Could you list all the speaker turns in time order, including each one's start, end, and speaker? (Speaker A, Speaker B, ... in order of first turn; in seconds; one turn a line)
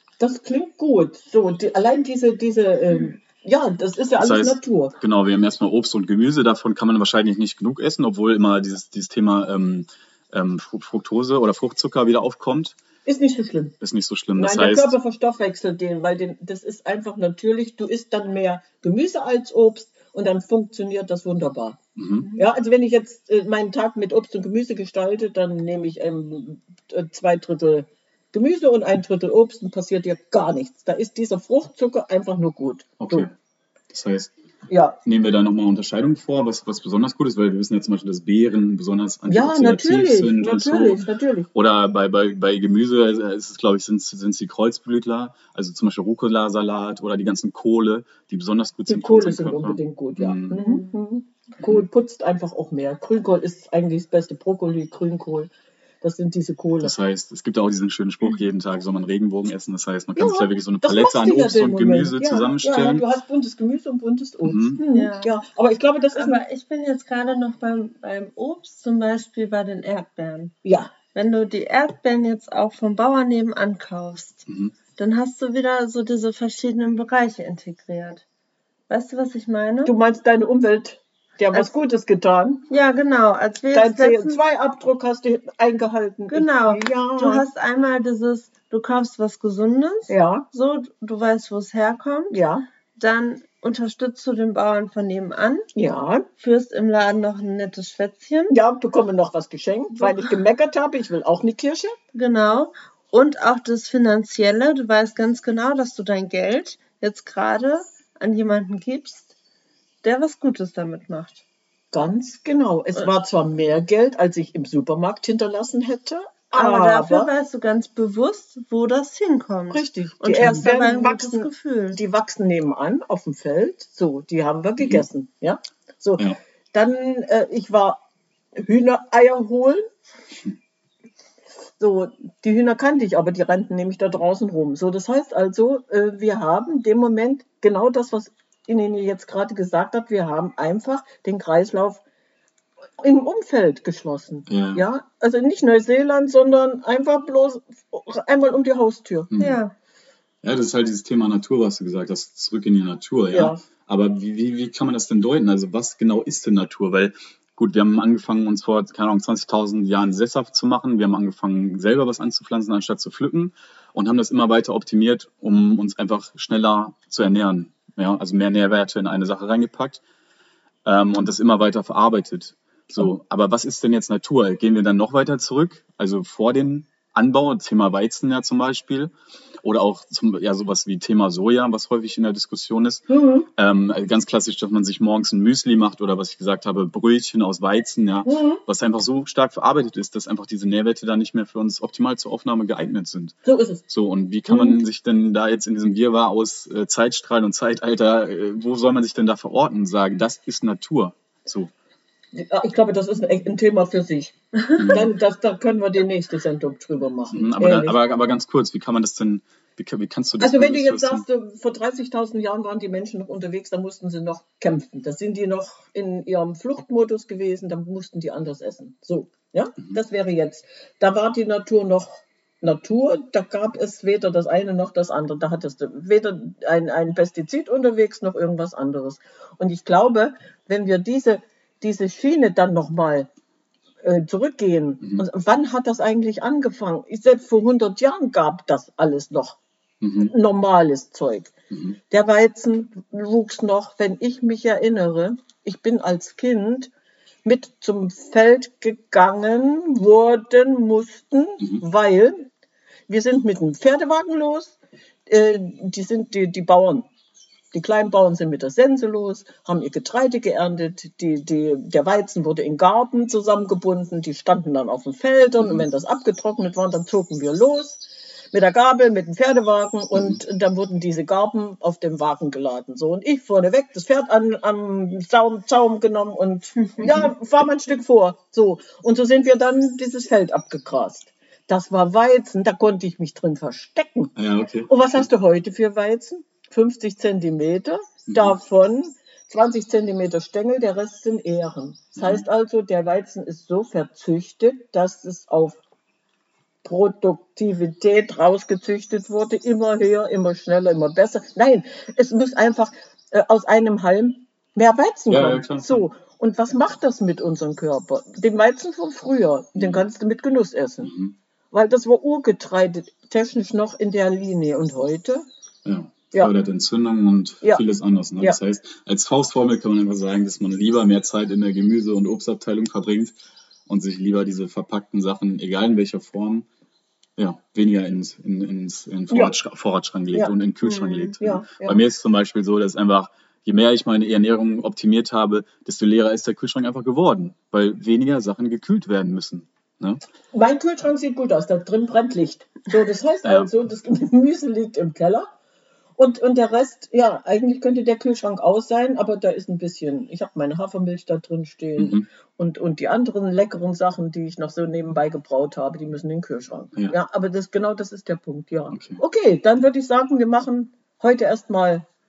Speaker A: 0.2-4.9
Speaker B: 4.2-12.8
Speaker A: 13.1-13.8
Speaker B: 13.8-14.9
Speaker A: 14.4-21.8
Speaker B: 22.0-22.3
Speaker A: 22.4-33.3
Speaker B: 33.0-33.3
Speaker B: 33.9-34.3
Speaker A: 34.7-35.0
Speaker B: 35.0-50.6
Speaker A: 39.3-41.5
Speaker A: 48.9-56.9
Speaker C: 50.6-50.9
Speaker B: 51.6-51.9
Speaker B: 56.8-63.0
Speaker A: 60.2-66.4
Speaker B: 64.4-64.8
Speaker C: 64.9-65.4
Speaker C: 66.2-70.5
Speaker A: 70.6-70.9
Speaker C: 71.1-74.5
Speaker B: 74.5-74.7
Speaker C: 75.0-78.2
Speaker C: 78.9-80.0
Speaker A: 79.8-82.6
Speaker C: 82.7-84.4
Speaker A: 83.7-87.5
Speaker C: 86.3-92.4
Speaker A: 90.1-90.5
Speaker A: 92.3-92.7
Speaker C: 93.0-95.7
Speaker A: 95.8-96.3
Speaker C: 96.4-98.5
Speaker A: 98.5-101.9
Speaker C: 102.1-109.3
Speaker C: 110.0-111.4
Speaker A: 111.9-117.3
Speaker C: 116.5-122.0
Speaker A: 119.7-128.0
Speaker A: 128.6-129.8
Speaker A: 131.8-142.0
Speaker A: 143.0-149.3
Speaker B: 144.5-144.8
Speaker B: 149.3-149.6
Speaker C: 149.4-149.7
Speaker B: 150.4-170.0
Speaker A: 153.3-153.6
Speaker B: 170.9-179.1
Speaker B: 179.6-193.4
Speaker A: 183.1-183.5
Speaker A: 188.3-188.6
Speaker A: 193.4-193.8
Speaker B: 193.9-201.7
Speaker A: 194.5-194.8
Speaker A: 202.3-208.0
Speaker B: 204.8-205.1
Speaker B: 207.3-211.2
Speaker A: 210.4-233.3
Speaker A: 234.0-239.6
Speaker B: 240.0-240.3
Speaker A: 240.2-241.5
Speaker B: 241.7-242.0
Speaker A: 242.1-246.9
Speaker A: 247.4-252.5
Speaker A: 253.1-257.1
Speaker A: 257.7-284.3
Speaker B: 265.6-265.9
Speaker B: 270.1-270.4
Speaker B: 277.0-277.3
Speaker B: 284.4-285.2
Speaker A: 284.9-295.8
Speaker B: 288.3-288.6
Speaker B: 292.2-292.4
Speaker A: 296.8-311.1
Speaker B: 305.3-306.1
Speaker B: 309.8-310.0
Speaker B: 311.0-311.4
Speaker A: 311.7-315.5
Speaker B: 315.9-323.4
Speaker B: 323.9-326.7
Speaker B: 327.4-340.2
Speaker C: 330.8-331.3
Speaker A: 331.4-332.0
Speaker A: 340.5-345.5
Speaker B: 343.4-343.7
Speaker A: 346.2-362.1
Speaker B: 352.0-352.2
Speaker B: 358.9-359.2